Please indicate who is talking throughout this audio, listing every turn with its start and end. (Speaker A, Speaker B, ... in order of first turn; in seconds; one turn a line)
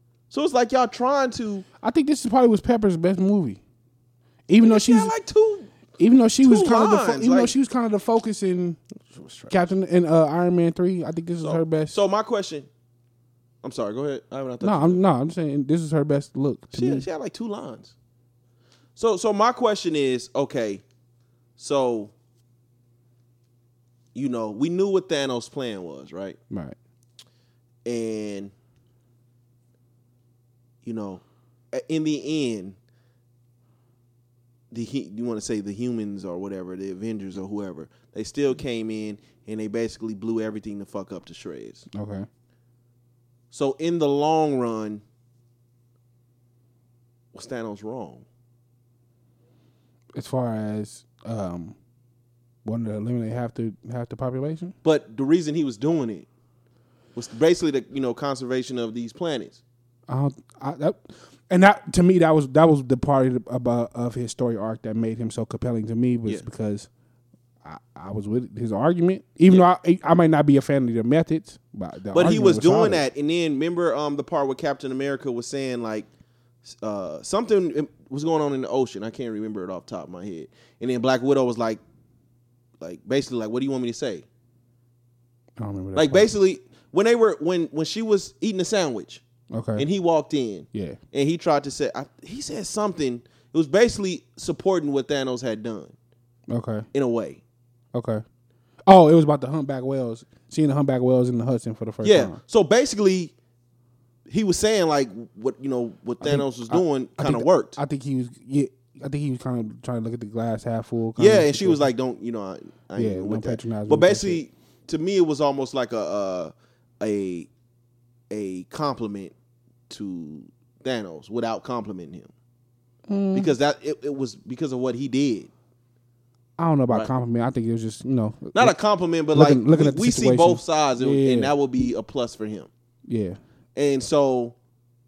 Speaker A: 0.3-1.6
Speaker B: 1.8-3.6
Speaker B: 4.5-5.1
Speaker A: 4.6-5.7
Speaker B: 6.0-8.8
Speaker A: 6.4-7.5
Speaker A: 9.1-9.7
Speaker B: 9.5-11.9
Speaker A: 11.4-12.7
Speaker A: 13.6-15.0
Speaker B: 14.6-17.1
Speaker A: 16.7-17.9
Speaker A: 19.0-20.8
Speaker A: 21.6-22.1
Speaker A: 24.1-26.4
Speaker B: 26.5-26.8
Speaker A: 27.9-28.5
Speaker A: 30.8-32.8
Speaker A: 34.7-41.9
Speaker B: 41.9-42.3
Speaker A: 43.5-45.0
Speaker A: 47.3-48.2
Speaker B: 50.1-51.8
Speaker B: 52.6-54.8
Speaker A: 54.8-56.3
Speaker A: 57.1-59.6
Speaker B: 60.1-66.9
Speaker B: 67.6-73.0
Speaker A: 72.1-76.1
Speaker A: 76.7-81.8
Speaker A: 82.8-84.2
Speaker B: 85.6-86.3
Speaker A: 86.0-89.2
Speaker B: 89.5-89.9
Speaker A: 89.8-95.9
Speaker B: 90.7-91.0
Speaker B: 96.5-96.9
Speaker A: 96.9-97.4
Speaker B: 97.9-98.2
Speaker B: 98.9-102.4
Speaker A: 102.0-103.3
Speaker A: 104.3-107.8
Speaker B: 106.2-111.9
Speaker A: 111.2-117.5
Speaker B: 113.0-114.4
Speaker A: 118.3-119.3
Speaker A: 119.9-122.3
Speaker B: 123.1-123.5
Speaker A: 123.3-125.5
Speaker B: 126.6-128.8
Speaker A: 128.5-132.7
Speaker B: 129.3-131.5
Speaker B: 133.1-133.4
Speaker A: 133.8-134.6